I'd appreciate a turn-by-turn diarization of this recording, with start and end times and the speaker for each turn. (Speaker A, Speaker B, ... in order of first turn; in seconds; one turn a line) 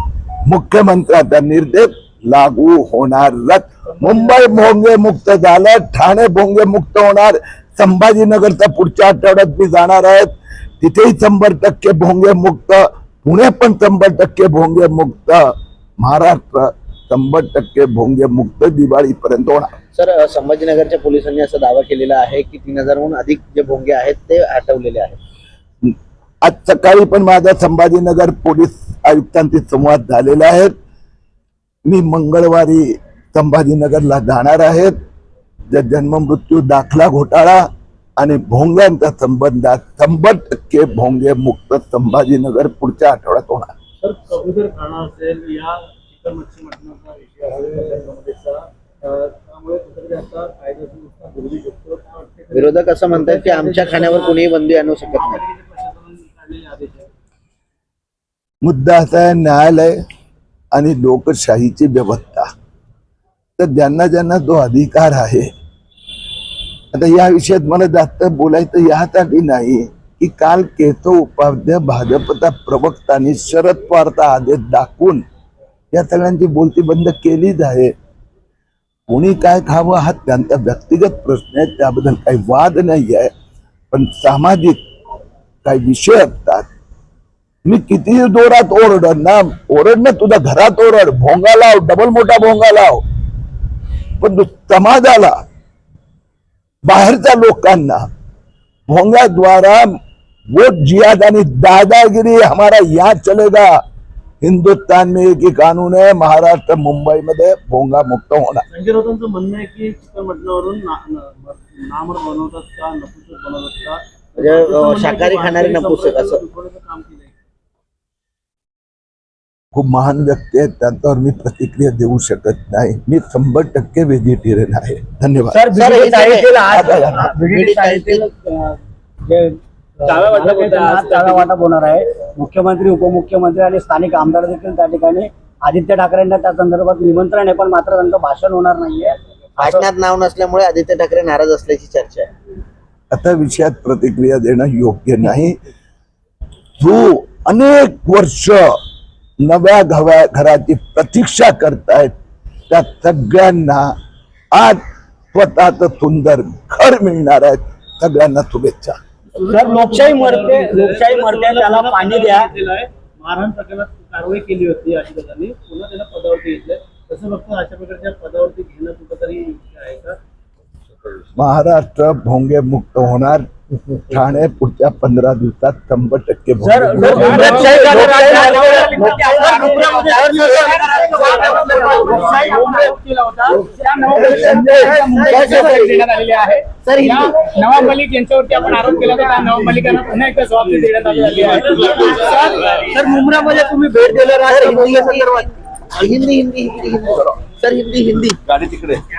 Speaker A: 0.5-19.7
Speaker B: 3.9-4.4
Speaker C: 19.9-25.2
Speaker A: 25.8-30.7
Speaker A: 31.9-35.0
Speaker A: 35.7-37.6
Speaker A: 38.2-43.7
Speaker B: 44.0-57.1
Speaker C: 52.5-55.4
Speaker A: 58.6-60.0
Speaker A: 60.7-62.5
Speaker A: 63.6-65.5
Speaker A: 66.9-75.2
Speaker A: 75.9-77.9
Speaker A: 79.1-83.3
Speaker A: 83.9-84.8
Speaker A: 85.7-86.7
Speaker A: 87.7-93.0
Speaker A: 94.2-95.4
Speaker A: 96.8-98.0
Speaker A: 98.9-99.9
Speaker A: 100.5-103.7
Speaker A: 104.4-108.7
Speaker B: 108.7-117.3
Speaker C: 114.4-116.4
Speaker A: 119.7-125.7
Speaker D: 125.5-139.8
Speaker C: 125.7-128.2
Speaker A: 126.7-127.3
Speaker B: 130.0-131.3
Speaker E: 130.1-131.4
Speaker C: 139.6-142.3
Speaker A: 143.1-145.6
Speaker A: 146.8-148.7
Speaker A: 149.4-152.1
Speaker A: 152.7-153.9
Speaker A: 154.5-154.8
Speaker A: 155.3-159.0
Speaker B: 159.3-170.2
Speaker D: 159.5-162.5
Speaker A: 171.4-178.4
Speaker D: 176.6-185.9
Speaker E: 177.0-193.5
Speaker C: 177.1-180.8
Speaker B: 181.3-182.4
Speaker A: 184.2-184.9
Speaker C: 184.2-186.1
Speaker C: 186.8-187.9
Speaker D: 191.2-192.0
Speaker B: 191.6-193.8
Speaker D: 193.1-195.2
Speaker C: 194.4-198.8